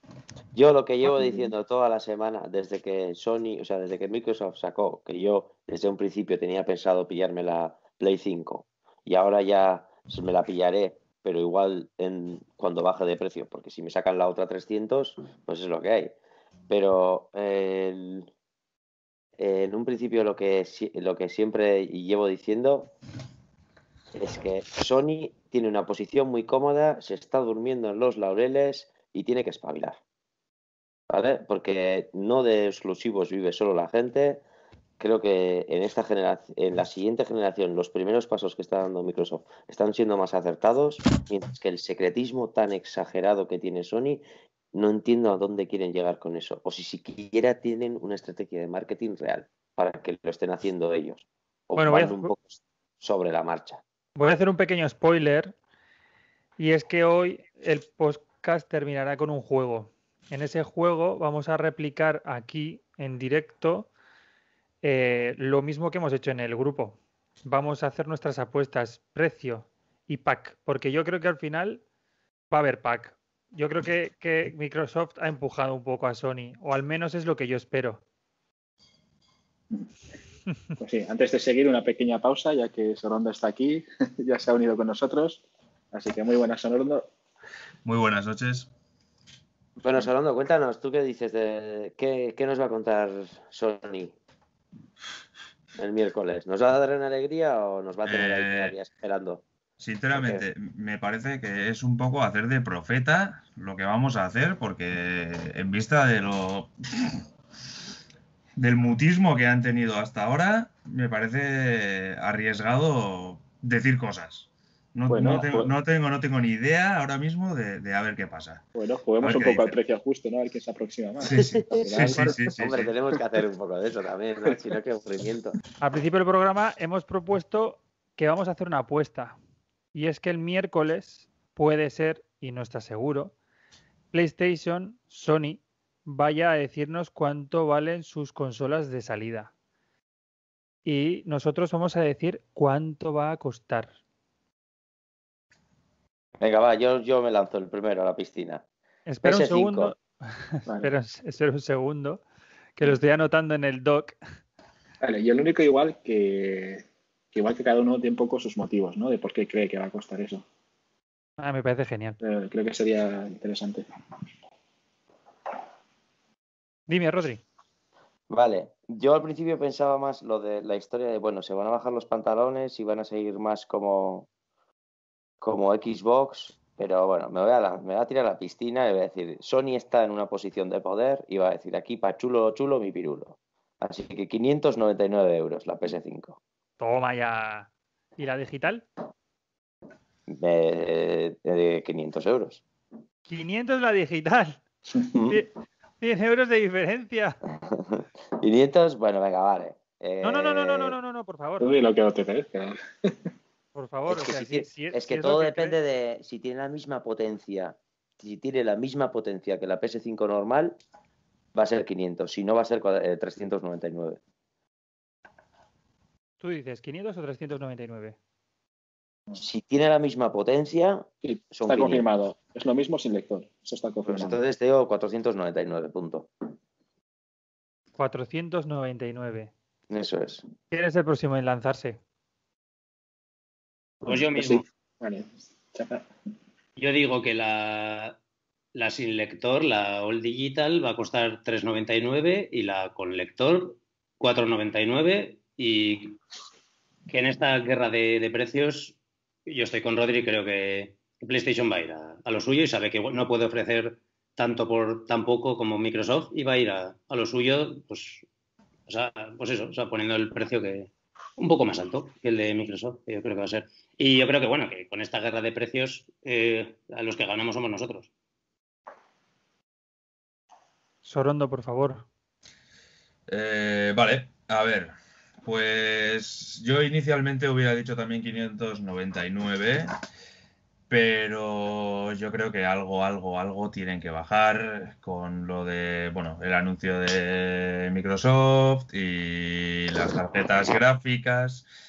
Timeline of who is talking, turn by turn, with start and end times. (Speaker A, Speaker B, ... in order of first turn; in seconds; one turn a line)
Speaker A: 0.5-16.2
Speaker B: 1.1-1.5
Speaker A: 16.7-18.3
Speaker A: 19.4-22.9
Speaker A: 24.1-30.0
Speaker A: 31.1-34.5
Speaker A: 35.0-53.8
Speaker C: 51.8-52.3
Speaker C: 54.2-55.5
Speaker C: 56.6-63.9
Speaker C: 64.8-71.8
Speaker C: 72.5-78.0
Speaker B: 80.8-85.4
Speaker B: 85.9-87.1
Speaker D: 87.8-88.7
Speaker A: 89.8-94.2
Speaker A: 95.8-99.4
Speaker D: 98.0-98.8
Speaker D: 99.8-107.2
Speaker A: 100.1-100.4
Speaker D: 108.6-118.7
Speaker B: 115.1-115.7
Speaker B: 118.8-122.5
Speaker D: 119.2-119.8
Speaker D: 121.2-122.9
Speaker A: 121.4-125.6
Speaker C: 125.8-129.4
Speaker C: 129.9-133.3
Speaker C: 134.1-139.5
Speaker C: 140.8-143.9
Speaker A: 146.4-148.7
Speaker C: 149.1-152.2
Speaker A: 149.2-149.9
Speaker C: 152.8-154.2
Speaker B: 155.0-160.4
Speaker C: 161.4-162.2
Speaker B: 162.2-163.9
Speaker C: 166.9-167.4
Speaker A: 168.3-174.3
Speaker A: 175.4-186.4
Speaker C: 186.8-188.9
Speaker A: 190.3-192.6
Speaker C: 193.3-194.6
Speaker A: 195.1-195.4
Speaker C: 195.3-197.4
Speaker A: 197.7-201.0
Speaker C: 200.2-201.7
Speaker B: 201.6-203.1
Speaker C: 203.7-205.8
Speaker A: 204.1-210.8
Speaker A: 211.6-214.2
Speaker C: 216.4-218.2
Speaker A: 219.3-222.1
Speaker B: 221.2-224.4
Speaker A: 224.1-226.3
Speaker C: 228.0-229.5
Speaker A: 229.9-230.4
Speaker C: 230.7-232.0
Speaker E: 234.0-234.7
Speaker B: 234.1-236.1
Speaker E: 236.8-238.2
Speaker E: 238.8-246.2
Speaker E: 247.1-258.2
Speaker E: 258.9-268.1
Speaker C: 271.0-272.1
Speaker D: 273.3-279.9
Speaker D: 280.9-291.7